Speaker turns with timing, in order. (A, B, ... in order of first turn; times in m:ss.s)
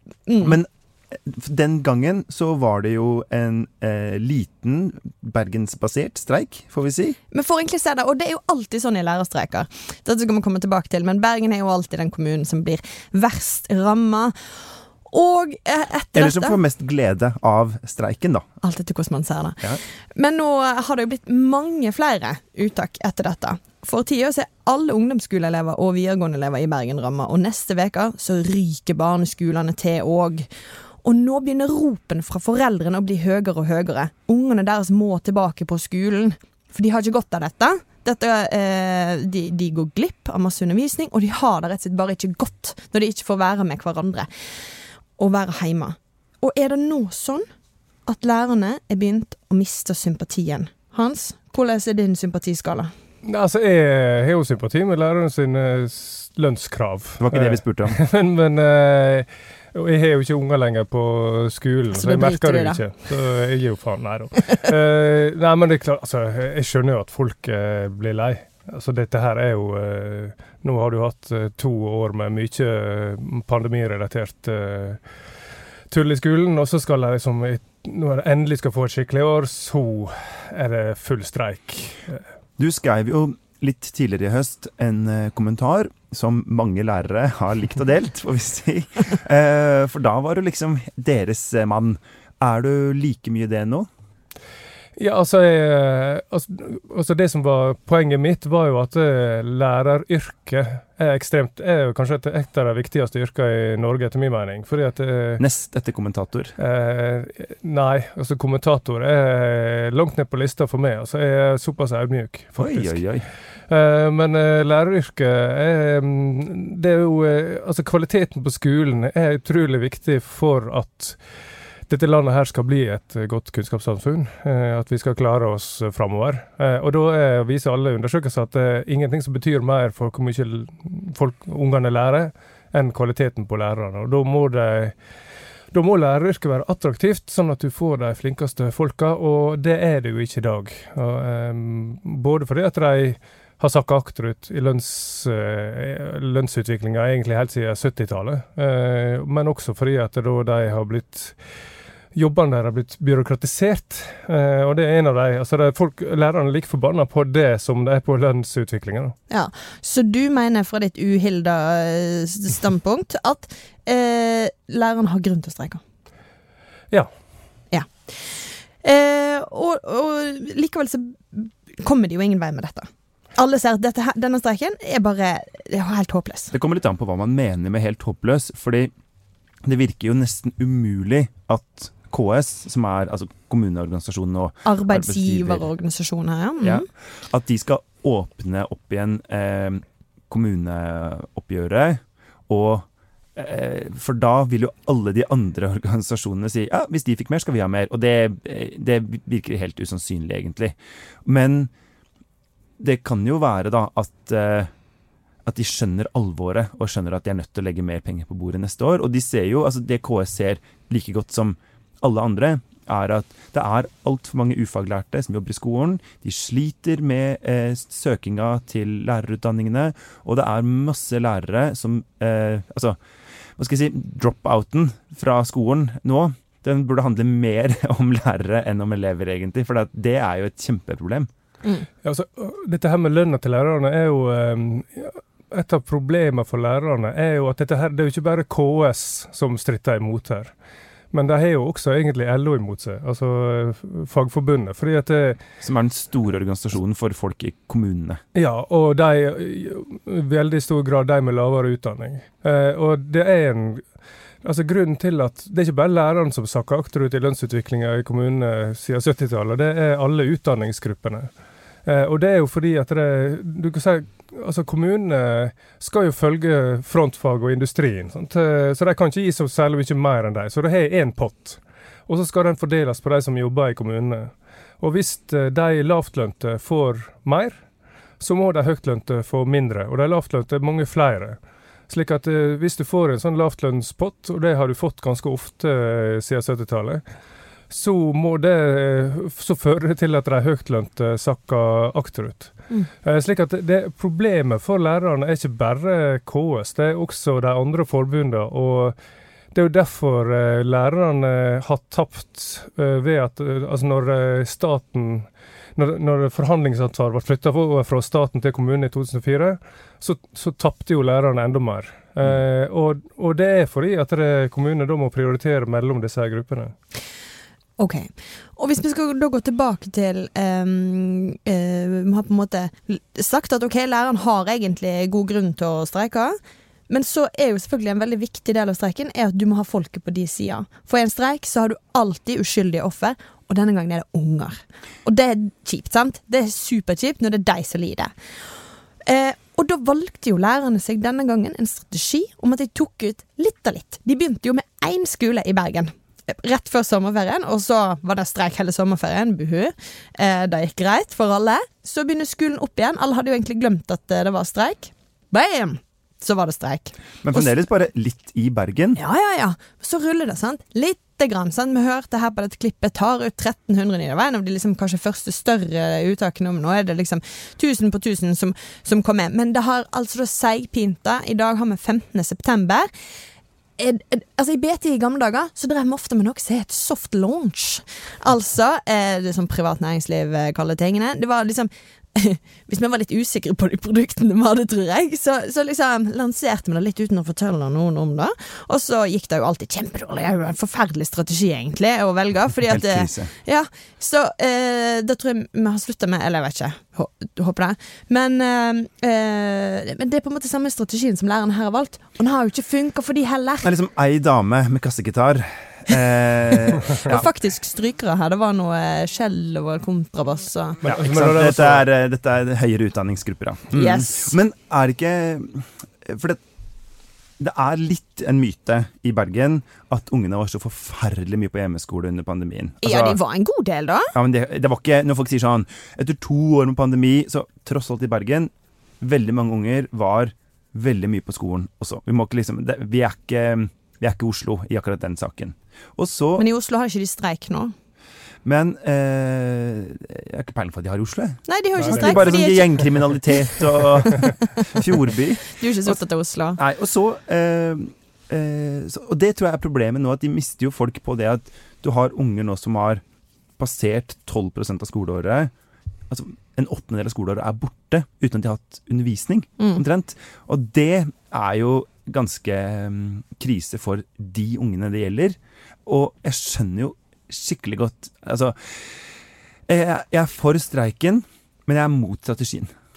0:00.3-0:00.6 A
0:00.4-0:07.2 B
0:07.3-0:14.3 A
0:15.0-0:16.6 A
0:16.1-0:18.5 B
0:18.6-0:30.5 A
0:31.0-0:44.3 A
0:45.2-0:47.4 A
0:48.0-0:52.9 A
0:53.2-1:15.0 C
0:57.2-0:58.0 B
1:01.9-1:02.8 A
1:15.9-1:22.2 C
1:22.6-1:33.9 B
1:35.0-1:45.4 C
1:45.4-1:46.5 B
1:46.6-1:53.0 C
1:52.6-1:53.2 B
1:53.7-2:01.2 C
2:01.9-2:14.9 C
2:15.7-2:31.4 C
2:32.1-2:39.2 C
2:39.3-2:45.8 A
2:47.7-2:56.5 A
2:56.5-2:58.9 B
2:59.6-3:05.7 B
3:04.6-3:06.8 A
3:06.6-3:21.7 B
3:22.8-3:24.7 B
3:25.4-3:43.0 B
3:43.6-3:51.3 B
3:52.0-4:00.5 C
4:01.1-4:05.4 C
4:05.6-4:08.2 B
4:08.3-4:13.9 C
4:14.4-4:21.3 C
4:21.8-4:37.6 C
4:38.2-4:41.4 C
4:41.9-4:47.0 C
4:47.7-4:59.0 C
4:59.5-5:16.7 C
5:17.8-5:26.4 A
5:26.9-5:38.1 A
5:39.0-5:57.5 A
5:57.2-5:59.0 B
5:58.9-6:12.9 A
6:13.8-6:43.7 A
6:32.6-6:33.3 B
6:43.6-6:47.3 B
6:47.0-6:50.8 A
6:50.8-6:51.8 C
6:50.8-6:56.4 B
6:53.7-6:54.3 A
6:57.4-7:03.2 B
7:02.8-7:04.1 A
7:04.1-7:16.4 B
7:16.4-7:17.7 A
7:18.4-7:26.0 B
7:21.5-7:24.3 A
7:21.8-7:22.3 C
7:25.6-7:26.6 A
7:26.6-7:33.0 B
7:33.6-7:35.5 B
7:36.1-7:49.0 B
7:49.7-7:52.7 B